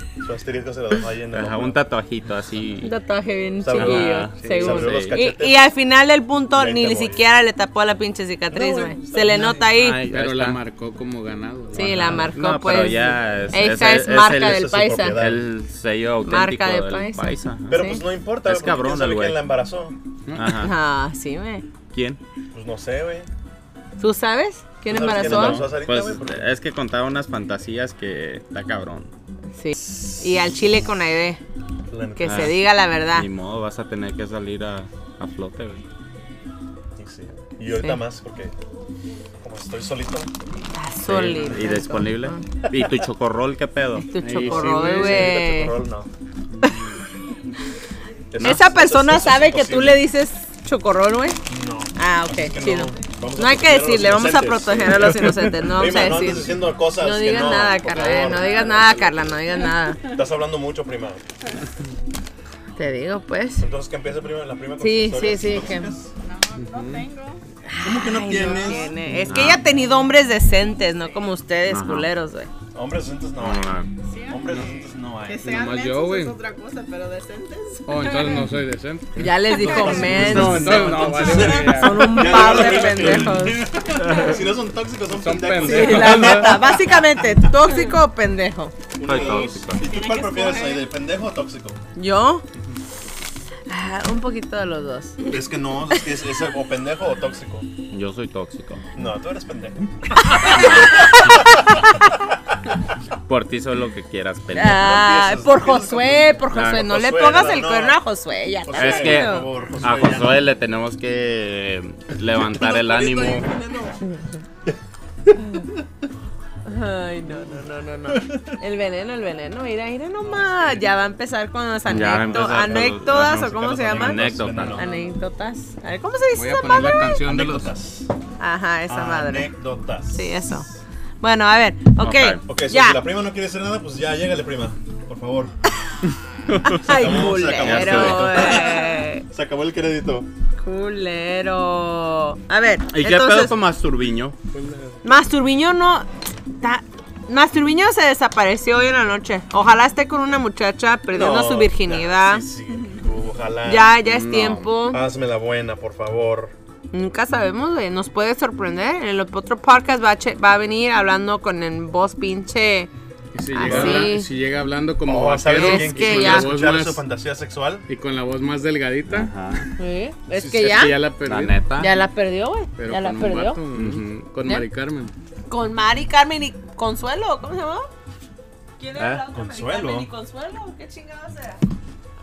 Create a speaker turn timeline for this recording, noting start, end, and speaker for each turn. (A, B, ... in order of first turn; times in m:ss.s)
0:00.2-0:01.8 A
0:01.3-0:02.9 B
0:02.8-0:10.0 C
0:03.6-0:05.6 A
0:03.7-0:05.2 B
0:06.5-0:07.2 A
0:08.5-0:09.7 A
0:09.7-0:10.6 B
0:10.0-0:12.3 D
0:11.7-0:15.2 C
0:12.1-0:17.8 B
0:14.4-0:15.4 A
0:16.2-0:18.0 C
0:17.7-0:20.0 A
0:18.4-0:19.4 B
0:20.3-0:20.6 D
0:20.3-0:20.7 B
0:20.6-0:21.6 C
0:21.9-0:22.2 B
0:22.5-0:23.3 A
0:24.0-0:25.6 C
0:24.8-0:26.4 A
0:25.1-0:29.1 B
0:29.6-0:31.4 C
0:31.9-0:32.5 A
0:32.2-0:33.3 C
0:32.3-0:32.6 B
0:33.1-0:35.8 B
0:37.0-0:38.5 A
0:37.7-0:38.0 C
0:39.4-0:40.3 A
0:40.7-0:42.4 C
0:41.1-0:44.1 B
0:44.1-0:45.7 C
0:44.2-0:45.4 D
0:44.4-0:46.1 A
0:48.3-0:50.0 A
0:48.4-0:51.4 C
0:51.5-0:59.4 A
0:52.0-1:00.0 C
1:00.0-1:01.2 A
1:02.8-1:03.6 C
1:03.6-1:06.1 A
1:04.8-1:05.9 C
1:06.2-1:07.4 E
1:06.6-1:07.1 D
1:07.6-1:12.5 C
1:07.8-1:08.9 A
1:09.3-1:09.6 B
1:11.7-1:12.1 B
1:12.7-1:15.5 A
1:13.4-1:13.9 B
1:14.0-1:14.6 E
1:15.3-1:18.4 E
1:15.4-1:16.4 D
1:17.9-1:23.2 D
1:19.2-1:23.6 C
1:19.5-1:20.3 E
1:19.5-1:27.3 A
1:21.2-1:21.5 E
1:25.1-1:26.6 D
1:25.6-1:28.8 C
1:28.9-1:31.8 A
1:29.0-1:29.8 B
1:29.1-1:30.9 E
1:32.0-1:32.4 C
1:33.7-1:35.3 C
1:35.2-1:37.7 A
1:37.9-1:38.8 B
1:38.9-1:41.8 A
1:40.5-1:41.3 B
1:43.2-1:45.2 B
1:44.5-1:49.5 C
1:44.9-1:48.0 A
1:46.5-1:46.9 B
1:48.6-1:50.4 A
1:48.8-1:53.5 B
1:52.6-1:54.0 A
1:55.3-1:55.6 A
1:56.6-2:07.2 C
1:58.2-1:58.5 A
2:00.2-2:00.8 A
2:01.9-2:04.8 B
2:02.2-2:04.9 A
2:06.3-2:07.7 D
2:07.2-2:08.1 A
2:08.4-2:09.5 C
2:08.9-2:10.8 A
2:10.1-2:10.7 C
2:11.2-2:13.0 C
2:12.0-2:12.4 B
2:12.4-2:15.5 A
2:16.5-2:16.8 B
2:16.6-2:19.2 C
2:16.7-2:20.3 A
2:17.6-2:18.6 B
2:20.6-2:23.5 C
2:22.9-2:24.4 B
2:24.5-2:25.0 A
2:25.0-2:26.1 C
2:26.6-2:32.4 C
2:31.1-2:33.9 A
2:33.6-2:35.0 C
2:34.0-2:34.7 B
2:34.9-2:36.5 A
2:36.9-2:42.9 C
2:43.3-2:47.0 D
2:43.5-2:44.3 C
2:43.6-2:44.1 B
2:43.7-2:44.0 A
2:45.0-2:47.9 A
2:45.5-2:46.5 C
2:47.9-2:49.3 D
2:49.1-2:49.7 B
2:49.8-2:51.0 C
2:50.3-2:51.6 D
2:51.2-2:51.9 B
2:51.8-2:53.6 C
2:52.8-2:55.1 D
2:53.7-2:54.3 B
2:55.5-2:57.9 C
2:58.8-3:01.6 C
2:59.0-3:00.1 A